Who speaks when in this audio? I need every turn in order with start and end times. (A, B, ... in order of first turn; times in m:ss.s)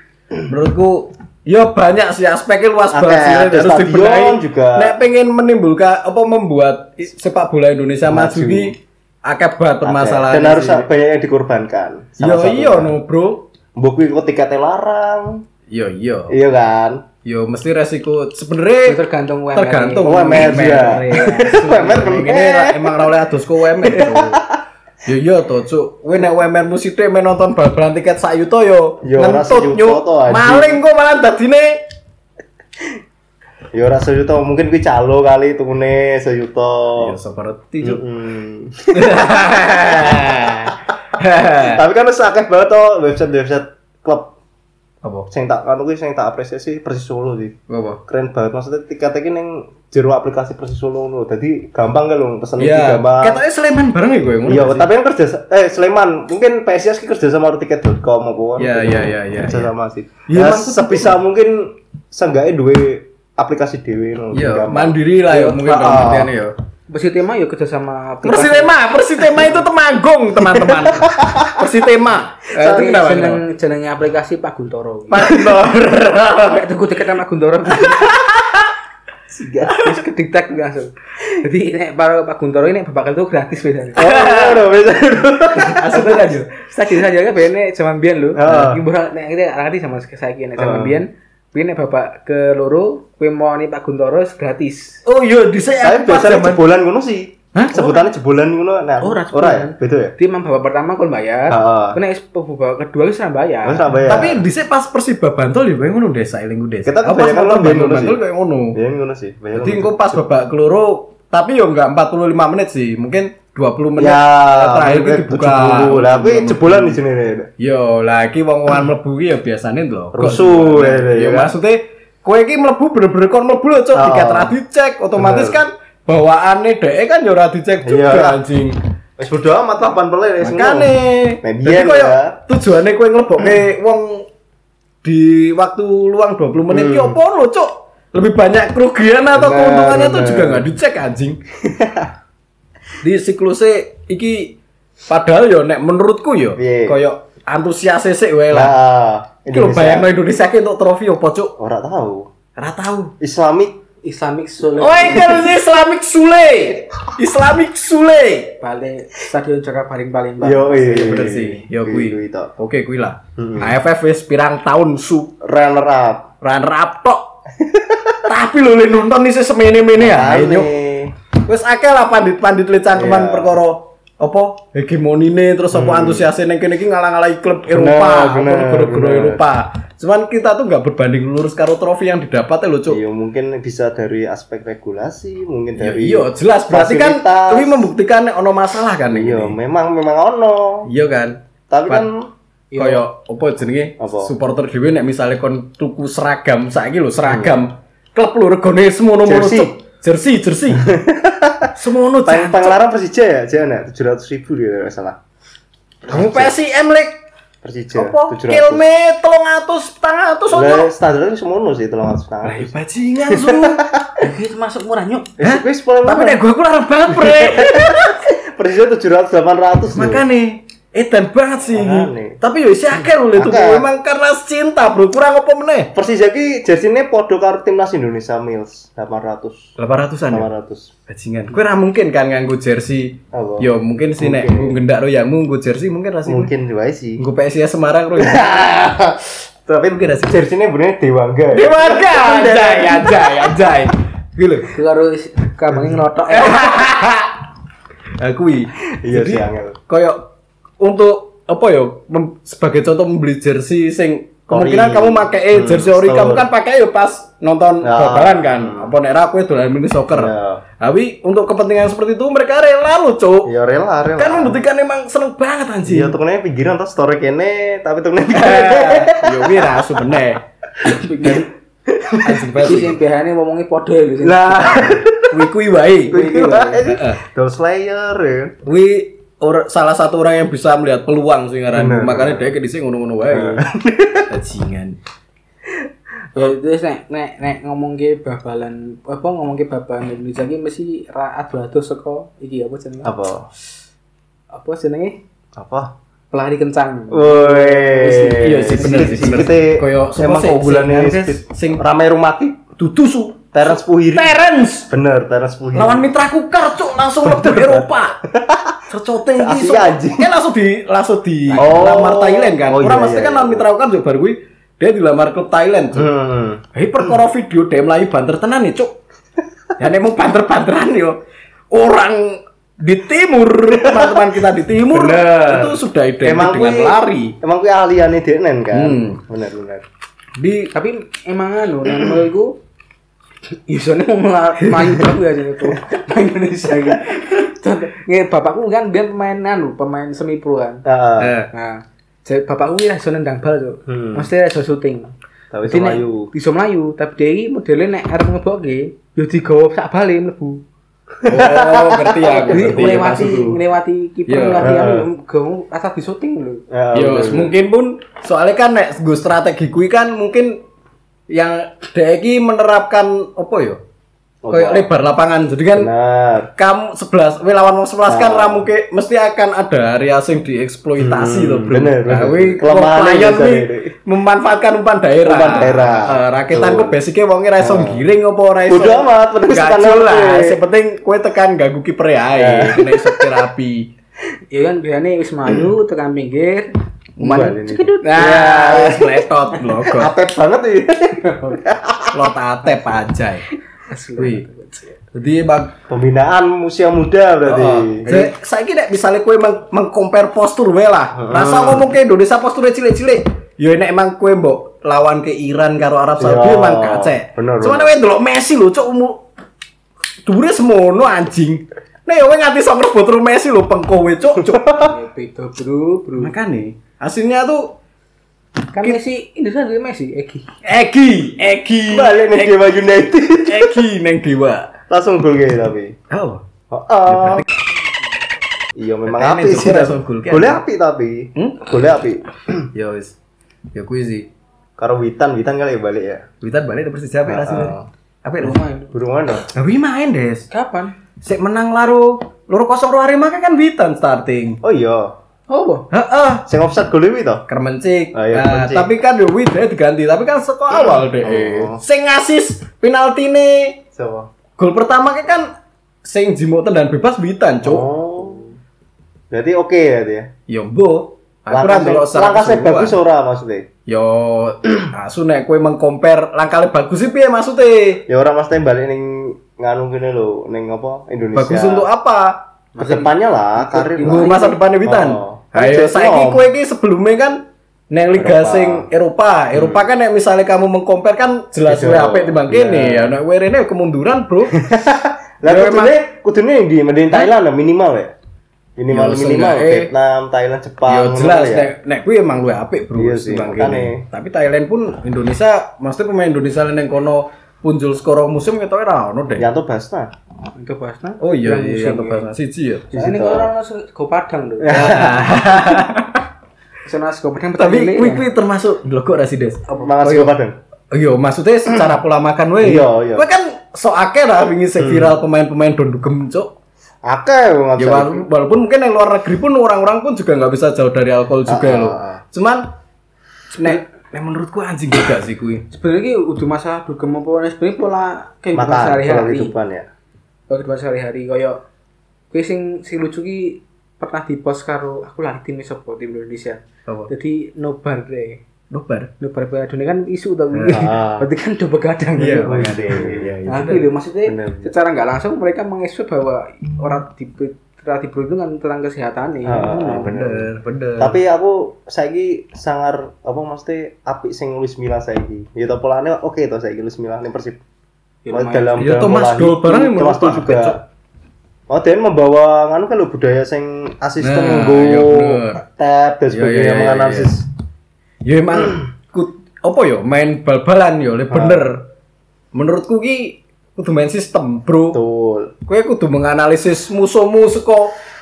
0:00.4-0:10.8 A
0:02.9-0:05.0 B
0:08.1-0:08.7 B
0:09.8-0:12.9 B
0:12.2-0:13.5 A
0:13.8-0:15.4 B
0:15.7-0:16.4 A
0:16.3-0:17.0 B
0:17.2-0:19.0 A
0:18.8-0:22.2 C
0:19.5-0:24.4 A
0:20.0-0:23.1 B
0:23.8-0:24.6 B
0:25.0-0:31.8 A
0:29.0-0:30.8 B
0:33.7-0:37.1 B
0:37.0-0:38.0 A
0:37.8-0:40.7 B
0:38.9-0:41.8 A
0:41.6-0:44.3 B
0:45.0-0:45.3 A
0:45.3-0:47.6 B
0:47.7-0:48.0 A
0:48.1-0:53.4 B
0:52.6-0:54.9 A
0:54.4-1:06.3 B
0:58.6-0:59.7 A
1:00.3-1:01.2 A
1:04.3-1:06.5 A
1:06.9-1:08.7 C
1:08.2-1:13.4 A
1:10.4-1:11.6 B
1:12.6-1:13.0 B
1:12.6-1:15.3 C
1:15.1-1:16.6 A
1:15.2-1:15.6 B
1:16.3-1:18.1 C
1:17.8-1:18.7 A
1:19.3-1:19.8 B
1:19.8-1:24.0 C
1:24.0-1:24.7 A
1:24.0-1:26.2 B
1:25.5-1:26.5 A
1:25.9-1:35.0 C
1:28.3-1:28.8 B
1:30.6-1:31.0 B
1:35.0-1:36.7 A
1:35.8-1:40.1 B
1:37.5-1:38.1 A
1:39.0-1:43.9 C
1:41.5-1:42.0 B
1:43.6-1:44.4 B
1:44.0-1:48.8 A
1:46.8-1:48.2 B
1:48.7-1:50.2 B
1:49.6-1:57.0 A
1:54.0-1:57.5 B
1:57.6-2:08.8 A
2:00.1-2:01.5 B
2:03.9-2:04.6 B
2:05.2-2:05.6 B
2:07.8-2:08.4 B
2:09.2-2:12.4 B
2:10.4-2:14.3 A
2:15.0-2:21.4 A
2:16.7-2:17.2 B
2:19.3-2:20.6 B
2:21.6-2:22.1 B
2:23.0-2:24.5 A
2:25.1-2:28.7 A
2:26.6-2:27.0 B
2:28.5-2:30.1 B
2:29.5-2:31.5 A
2:31.6-2:32.3 B
2:32.6-2:33.1 A
2:33.2-2:33.8 B
2:34.0-2:35.5 C
2:34.8-2:38.6 A
2:38.6-2:41.3 C
2:40.4-2:42.5 B
2:40.9-2:45.3 A
2:43.4-2:43.8 B
2:45.4-2:46.3 B
2:46.4-2:47.3 A
2:47.6-2:48.2 B
2:48.2-2:50.7 A
2:50.0-2:51.1 B
2:51.4-3:03.0 A
2:52.9-2:53.5 B
2:55.7-2:56.3 B
2:57.7-2:59.4 B
3:02.9-3:07.9 B
3:05.8-3:09.5 A
3:09.1-3:10.9 B
3:10.9-3:12.1 A
3:11.7-3:12.3 B
3:12.7-3:13.0 C
3:12.8-3:20.8 A
3:14.0-3:14.3 B
3:17.2-3:17.6 B
3:19.2-3:19.7 B
3:20.7-3:21.7 B
3:21.7-3:22.8 A
3:22.2-3:25.2 B
3:26.0-3:26.5 B
3:26.1-3:27.2 A
3:27.6-3:28.8 B
3:27.9-3:30.9 A
3:30.5-3:32.7 B
3:32.4-3:33.8 A
3:33.3-3:34.2 B
3:34.2-3:35.3 C
3:35.4-3:36.4 B
3:35.4-3:38.2 A
3:37.1-3:40.2 B
3:39.9-3:45.9 A
3:41.7-3:42.4 B
3:43.0-3:43.9 B
3:45.9-3:49.7 B
3:49.8-3:50.5 A
3:50.3-3:50.9 B
3:51.1-3:56.5 A
3:53.3-3:54.8 B
3:56.2-3:57.2 B
3:57.2-3:58.9 A
3:58.2-4:03.5 B
3:59.9-4:00.4 A
4:01.5-4:04.7 A
4:04.7-4:06.7 C
4:06.3-4:07.4 A
4:08.2-4:10.2 A
4:09.0-4:09.8 B
4:10.8-4:23.5 A
4:14.5-4:16.5 B
4:17.8-4:18.9 B
4:20.1-4:20.6 B
4:23.4-4:24.6 B
4:24.2-4:26.2 A
4:25.8-4:30.2 B
4:28.3-4:30.4 A
4:30.8-4:31.5 C
4:31.9-4:32.4 B
4:32.2-4:33.0 A
4:32.6-4:34.9 C
4:34.2-4:35.4 B
4:35.3-4:37.2 A
4:36.1-4:38.5 B
4:36.1-4:36.8 C
4:38.6-4:43.6 A
4:41.7-4:42.5 B
4:43.3-4:44.3 B
4:44.3-4:45.0 A
4:46.3-4:53.1 C
4:53.0-4:53.5 B
4:54.5-4:55.2 C
4:55.5-4:55.9 B
4:56.3-4:59.5 C
4:57.1-5:02.6 B
4:58.3-5:01.8 A
5:02.8-5:04.9 A
5:03.5-5:06.1 B
5:05.7-5:08.2 A
5:07.2-5:08.8 B
5:08.9-5:16.1 A
5:09.4-5:10.3 B
5:11.5-5:13.6 B
5:15.9-5:17.2 B
5:16.7-5:18.9 A
5:19.8-5:21.2 A
5:21.7-5:27.3 A
5:23.8-5:24.3 B
5:24.9-5:29.8 B
5:28.7-5:29.2 A
5:30.4-5:30.7 A
5:30.7-5:32.6 C
5:33.5-5:40.8 C
5:40.8-5:41.3 B
5:41.2-5:41.5 A
5:41.5-5:45.1 C
5:43.9-5:44.3 B
5:45.5-5:46.3 B
5:45.6-5:50.6 C
5:51.2-5:53.6 B
5:51.2-5:53.5 A
5:52.2-5:56.6 C
5:54.3-5:54.8 A
5:54.6-5:55.1 B
5:56.7-5:57.5 B
5:56.9-6:00.6 A
6:01.3-6:03.8 A
6:04.4-6:04.9 B
6:04.5-6:05.9 A
6:05.7-6:06.5 B
6:06.6-6:23.9 A
6:08.1-6:08.7 B
6:11.0-6:13.9 B
6:15.2-6:17.0 B
6:17.6-6:18.0 B
6:18.7-6:20.6 B
6:22.3-6:23.4 B
6:24.5-6:26.7 C
6:27.2-6:30.1 A
6:27.2-6:29.2 B
6:27.2-6:28.3 C
6:29.8-6:32.3 B
6:31.2-6:31.6 C
6:32.1-6:33.5 A
6:33.9-6:34.9 C
6:34.2-6:34.4 A
6:35.1-6:35.7 A
6:35.9-6:38.3 B
6:37.5-6:49.2 A
6:41.2-6:41.9 B
6:46.2-6:47.9 B
6:50.2-6:54.6 A
6:54.4-6:54.9 B
6:54.8-6:56.3 C
6:56.2-6:57.7 A
6:58.7-7:00.4 C
7:00.6-7:02.6 A
7:01.9-7:03.8 B
7:03.4-7:04.7 A
7:04.9-7:06.0 B
7:06.1-7:06.4 A
7:06.7-7:07.4 B
7:07.1-7:07.6 A
7:08.7-7:12.7 B
7:09.1-7:10.6 A
7:11.4-7:11.7 A
7:12.7-7:13.1 A
7:13.7-7:14.3 A
7:14.8-7:16.2 B
7:16.4-7:18.6 A
7:17.2-7:17.9 B
7:18.4-7:18.9 C
7:18.9-7:19.5 B
7:19.5-7:20.5 A
7:20.5-7:20.9 C
7:21.2-7:24.6 A
7:24.6-7:25.1 B
7:25.5-7:25.8 C
7:25.9-7:26.4 A
7:26.5-7:27.4 B
7:27.5-7:33.8 A
7:28.1-7:28.9 B
7:30.7-7:31.8 B
7:33.9-7:34.3 B
7:34.6-7:35.5 A
7:36.0-7:37.9 A
7:37.6-7:38.4 B
7:39.3-7:40.3 B
7:40.5-7:43.0 A
7:41.5-7:43.7 B
7:43.9-7:48.0 A
7:48.1-7:51.9 B
7:51.4-7:52.4 A
7:52.8-7:54.6 C
7:52.8-7:56.5 B
7:54.0-7:57.4 A
7:57.9-8:04.6 A
7:58.2-7:58.9 B
7:59.5-7:59.8 B
8:01.7-8:03.1 B
8:04.5-8:08.1 B
8:05.4-8:06.0 A
8:08.8-8:11.7 B
8:08.9-8:09.9 A
8:10.9-8:19.5 A
8:13.0-8:14.0 B
8:19.3-8:20.1 B
8:20.6-8:22.3 C
8:21.2-8:22.9 A
8:22.9-8:24.7 C
8:22.9-8:23.5 B
8:24.6-8:25.4 B
8:24.7-8:26.2 A
8:26.8-8:28.2 C
8:27.6-8:30.3 A
8:29.8-8:30.5 B
8:30.9-8:36.5 A
8:32.6-8:33.3 B
8:34.8-8:35.1 B
8:37.1-8:38.2 B
8:37.8-8:42.6 A
8:41.5-8:42.2 B
8:43.5-8:45.6 A
8:45.7-8:49.5 C
8:48.5-8:49.8 B
8:50.5-8:51.6 C
8:52.3-8:58.4 C
8:58.7-8:59.1 A
8:59.2-9:02.9 C
9:00.5-9:00.9 A
9:00.7-9:01.3 B
9:02.2-9:03.8 A
9:02.2-9:04.7 B
9:03.4-9:10.1 C
9:09.4-9:10.5 B
9:09.7-9:11.2 A
9:11.0-9:17.6 B
9:18.2-9:18.9 C
9:18.3-9:20.8 B
9:18.8-9:20.8 A
9:21.7-9:27.4 B
9:24.2-9:25.6 A
9:26.3-9:27.3 A
9:28.2-9:31.8 A
9:31.3-9:31.7 B
9:32.5-9:35.0 A
9:34.9-9:35.5 B
9:35.7-9:37.9 A